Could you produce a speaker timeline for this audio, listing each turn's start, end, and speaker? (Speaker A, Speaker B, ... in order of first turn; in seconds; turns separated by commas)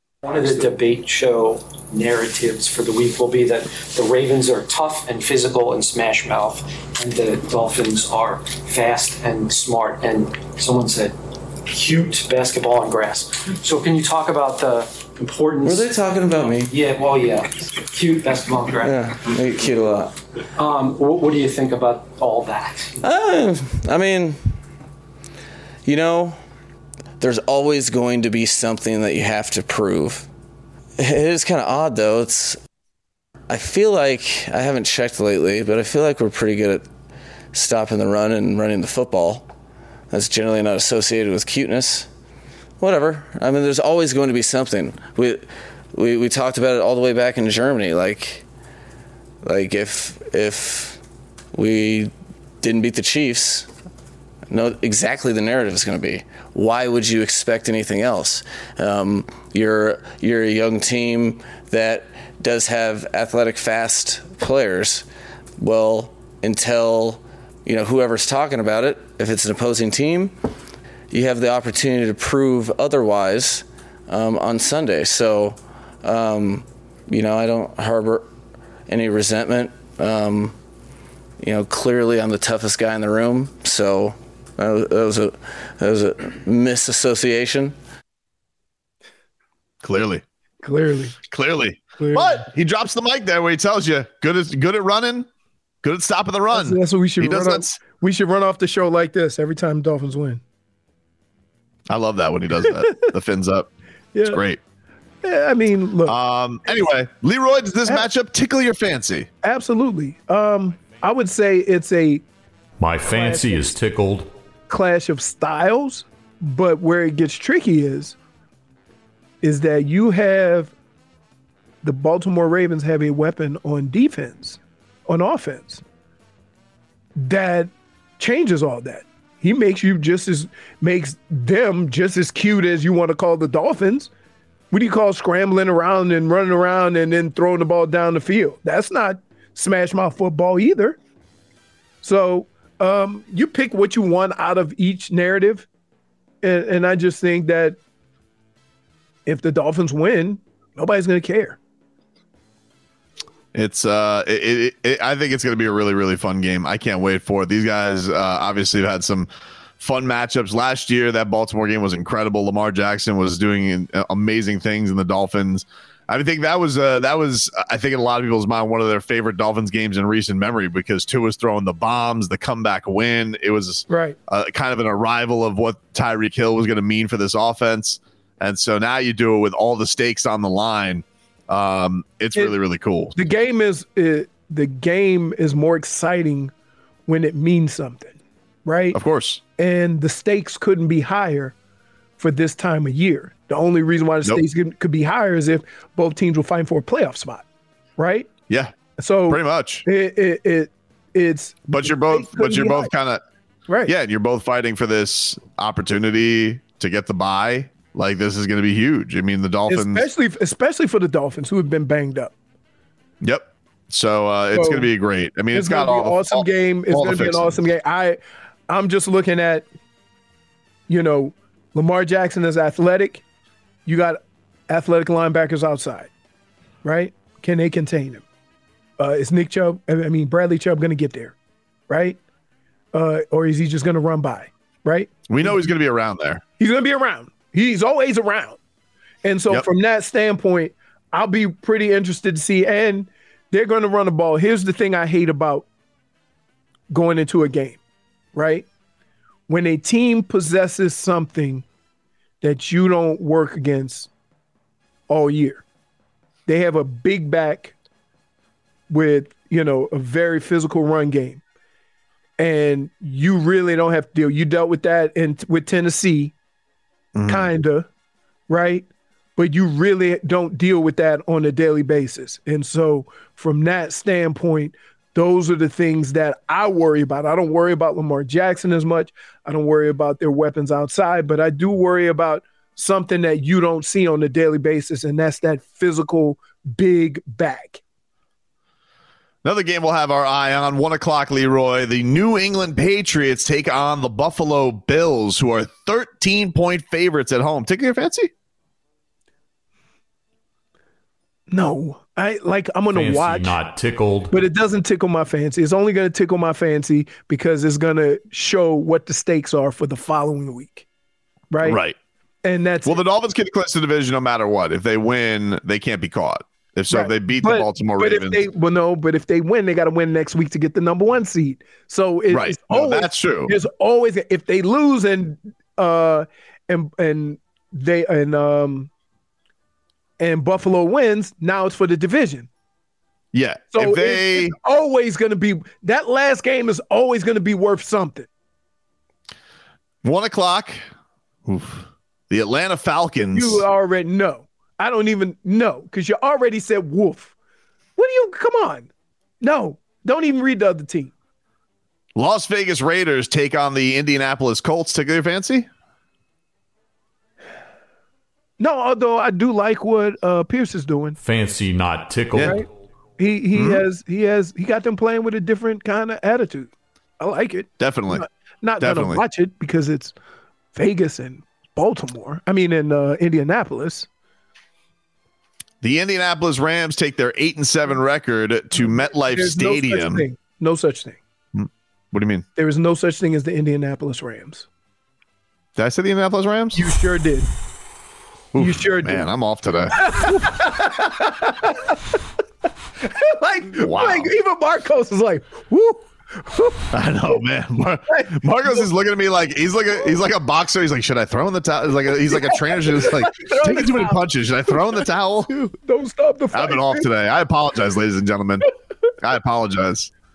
Speaker A: 0.2-19.4, Speaker B: 15.6-16.7, Speaker B: 18.8-20.1, Speaker A: 20.6-23.0, Speaker B: 23.0-24.4, Speaker B: 25.9-26.4, Speaker B: 27.2-30.3, Speaker B: 31.0-32.6, Speaker B: 33.5-36.9, Speaker B: 37.5-39.5, Speaker B: 40.1-42.1, Speaker B: 42.8-48.5, Speaker B: 49.4-51.0, Speaker B: 51.5-53.7, Speaker B: 54.5-65.0, Speaker B: 65.6-70.3, Speaker B: 71.1-78.3, Speaker B: 78.9-80.5, Speaker B: 81.4-87.8, Speaker C: 89.8-90.2, Speaker D: 90.6-91.2, Speaker C: 91.3-95.3, Speaker D: 92.0-92.4, Speaker C: 95.8-97.8, Speaker D: 96.5-100.4, Speaker C: 101.9-103.7, Speaker D: 104.1-104.4, Speaker C: 104.2-104.6, Speaker D: 105.2-106.2, Speaker C: 106.1-109.3, Speaker D: 109.4-112.2, Speaker E: 112.8-114.3, Speaker D: 113.0-113.8, Speaker D: 114.7-118.2, Speaker D: 119.4-120.7, Speaker D: 121.8-125.8, Speaker D: 127.2-134.1, Speaker D: 134.7-141.0, Speaker D: 142.0-145.7, Speaker D: 146.4-147.8, Speaker D: 149.3-151.6, Speaker C: 153.5-183.2, Speaker D: 173.9-174.2, Speaker D: 183.2-186.5, Speaker D: 187.1-189.0, Speaker C: 188.9-189.4, Speaker D: 189.6-191.6, Speaker D: 192.2-197.4, Speaker D: 198.0-198.3, Speaker C: 198.5-199.8, Speaker D: 199.0-202.9, Speaker C: 201.7-203.2, Speaker D: 203.7-203.9, Speaker C: 203.9-210.1, Speaker D: 209.7-212.3, Speaker C: 213.2-217.6, Speaker D: 214.5-214.9, Speaker D: 215.5-219.7, Speaker D: 220.9-223.2, Speaker D: 223.9-226.1, Speaker D: 226.8-228.2, Speaker D: 229.0-231.3, Speaker D: 231.9-232.2, Speaker D: 232.9-235.7, Speaker C: 235.3-236.4, Speaker D: 236.6-238.6, Speaker D: 239.2-245.7, Speaker D: 246.9-247.8, Speaker D: 248.3-248.7, Speaker D: 249.5-251.7, Speaker D: 252.4-254.1, Speaker D: 255.1-255.6, Speaker D: 256.5-257.7, Speaker D: 258.9-261.4, Speaker D: 262.4-266.3, Speaker C: 267.1-267.5, Speaker D: 267.3-267.9, Speaker D: 268.5-287.8, Speaker C: 289.4-298.3, Speaker D: 301.5-303.6, Speaker E: 302.9-304.3, Speaker D: 304.3-310.9, Speaker D: 311.5-311.8, Speaker C: 311.6-312.0, Speaker D: 312.4-313.0, Speaker C: 312.9-318.4, Speaker D: 316.9-328.9, Speaker C: 322.3-323.6, Speaker D: 330.2-332.5, Speaker C: 333.3-334.6, Speaker D: 333.7-338.3, Speaker C: 340.0-340.8, Speaker C: 341.5-343.7, Speaker D: 343.3-347.3, Speaker D: 348.0-348.9, Speaker D: 349.4-351.1, Speaker C: 352.2-355.7, Speaker D: 358.6-361.2, Speaker E: 361.2-362.6, Speaker D: 362.4-362.7, Speaker D: 363.2-370.1, Speaker C: 363.5-363.8, Speaker C: 367.8-368.2, Speaker C: 368.8-369.2, Speaker D: 370.8-374.1, Speaker C: 375.8-380.2, Speaker D: 378.8-381.2, Speaker C: 381.6-382.4, Speaker D: 382.6-384.7, Speaker C: 385.8-386.9, Speaker D: 386.7-387.5, Speaker C: 388.5-390.6, Speaker D: 388.6-389.3, Speaker D: 389.9-392.0, Speaker D: 393.0-397.4, Speaker C: 393.8-394.3, Speaker C: 396.9-405.5, Speaker D: 398.1-398.9, Speaker D: 402.3-407.1, Speaker C: 406.5-408.7, Speaker C: 409.2-410.1